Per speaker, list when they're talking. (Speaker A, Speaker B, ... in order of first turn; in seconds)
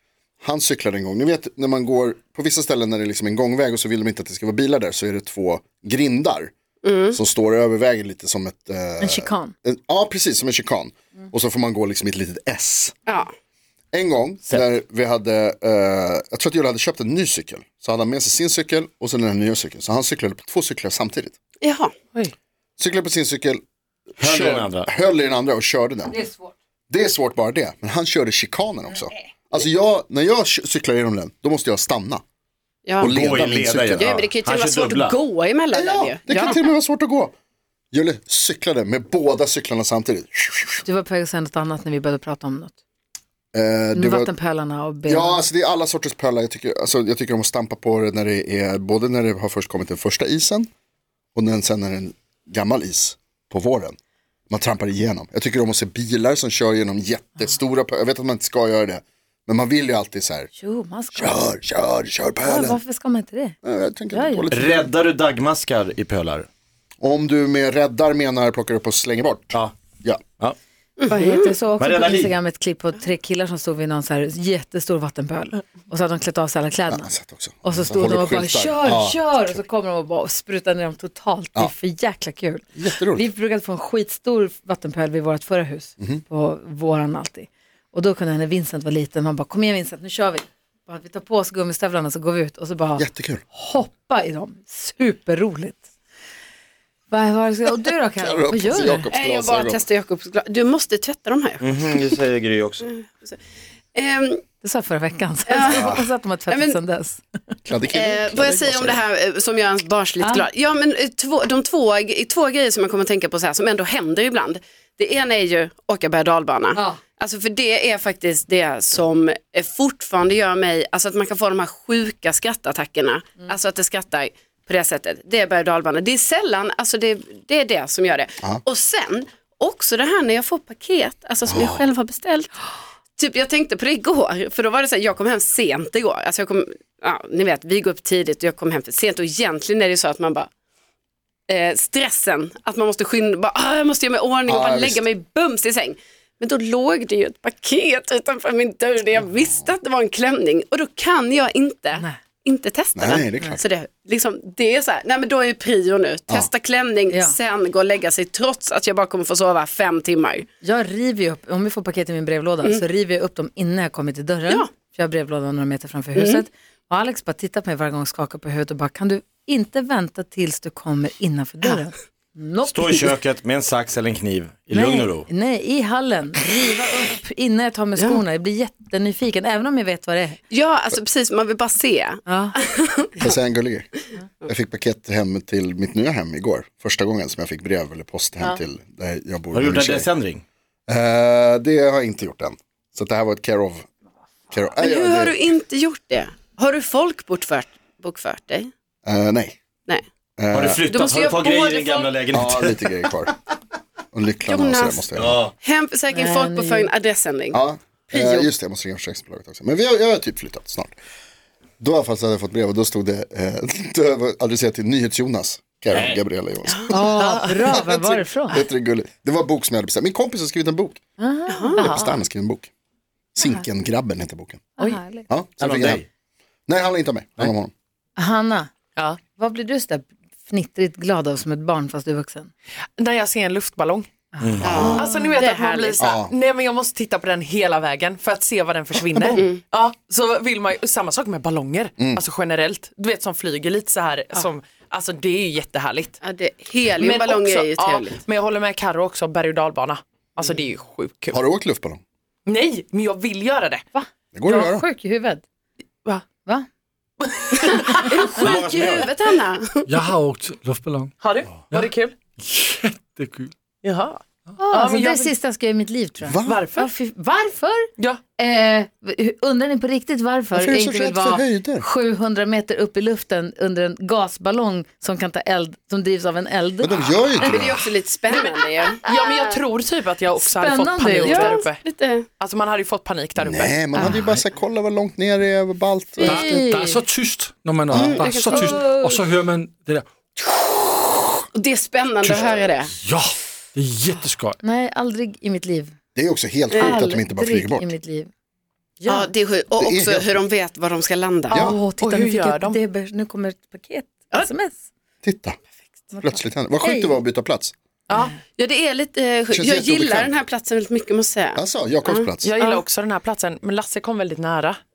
Speaker A: 0.4-6.5, 7.1-12.9, 13.9-21.3, 22.8-23.6, 24.2-26.1, 26.9-32.2, 33.0-34.1, 35.7-37.3, 37.9-40.8, 43.5-44.3, 45.1-50.7, 51.3-54.0, 54.5-60.5, 61.1-62.8, 63.6-64.7, 67.0-70.2, 76.9-79.6, 82.8-83.2, 93.0-93.4, 98.2-99.8, 107.7-109.0, 131.5-131.8, 144.4-145.0, 152.9-153.6, 183.2-183.9, 184.4-190.1, 190.9-193.9, 194.5-195.4, 199.1-199.6, 200.4-200.8, 202.3-203.3, 204.1-205.4, 207.5-210.9, 211.8-221.0, 221.8-222.7, 223.3-224.7, 225.2-226.0, 226.7-227.7, 234.6-235.1, 236.0-236.3, 251.3-252.0, 254.3-254.8, 266.2-266.6, 270.5-271.8, 276.8-277.9, 283.4-286.5, 287.9-288.2, 296.1-297.9, 299.8-300.4, 305.2-305.6, 306.2-307.7, 309.5-310.3, 311.5-312.5
Speaker B: 6.8-7.2, 21.6-21.9, 32.8-33.1, 34.0-36.6, 71.0-71.5, 99.1-101.7, 102.8-103.4, 103.9-104.4, 105.5-106.8, 107.9-132.5, 133.2-140.5, 141.5-160.5, 166.2-166.4, 180.5-183.3, 194.8-198.7, 200.8-202.1, 204.4-207.6, 221.5-221.9, 234.6-236.1, 239.3-239.6, 246.2-248.2, 257.5-259.9, 277.4-279.6, 281.2-282.3, 287.9-289.0, 291.5-292.9, 299.1-301.8, 308.5-312.8
Speaker C: 9.0-9.5, 26.1-26.5, 40.8-42.8, 43.9-45.4, 60.5-61.5, 62.4-63.6, 64.1-64.9, 71.1-77.1, 77.6-95.8, 97.1-99.1, 104.6-107.2, 116.7-117.0, 157.1-157.3, 160.6-173.1, 174.7-180.4, 182.2-182.6, 206.1-206.9, 208.1-208.4, 216.9-218.6, 221.2-221.8, 224.8-225.2, 228.2-228.7, 229.3-232.5, 234.3-235.1, 254.4-255.4, 264.6-277.5, 280.4-281.6, 283.9-284.2, 286.2-287.0, 288.4-289.2, 294.6-295.9, 296.8-298.3, 299.0-299.3, 301.8-304.8, 306.1-307.2
Speaker D: 24.2-24.9, 33.0-35.2, 64.5-66.5, 71.8-72.3, 101.6-102.9, 105.7-106.0, 172.7-175.3, 189.5-190.4, 200.5-202.8, 205.1-205.5, 215.9-216.2, 225.6-226.0, 234.4-234.9, 258.4-259.1
Speaker E: 221.8-222.2, 233.0-234.1, 234.9-246.2, 247.0-251.4, 252.4-254.0, 257.2-258.4, 261.2-262.1, 263.8-265.3, 266.4-266.9, 279.0-281.8, 282.4-283.8, 301.5-302.8, 308.1-308.4, 312.4-314.8
Speaker F: 259.9-261.1, 261.7-263.5, 284.0-284.4, 286.2-290.1, 292.2-294.6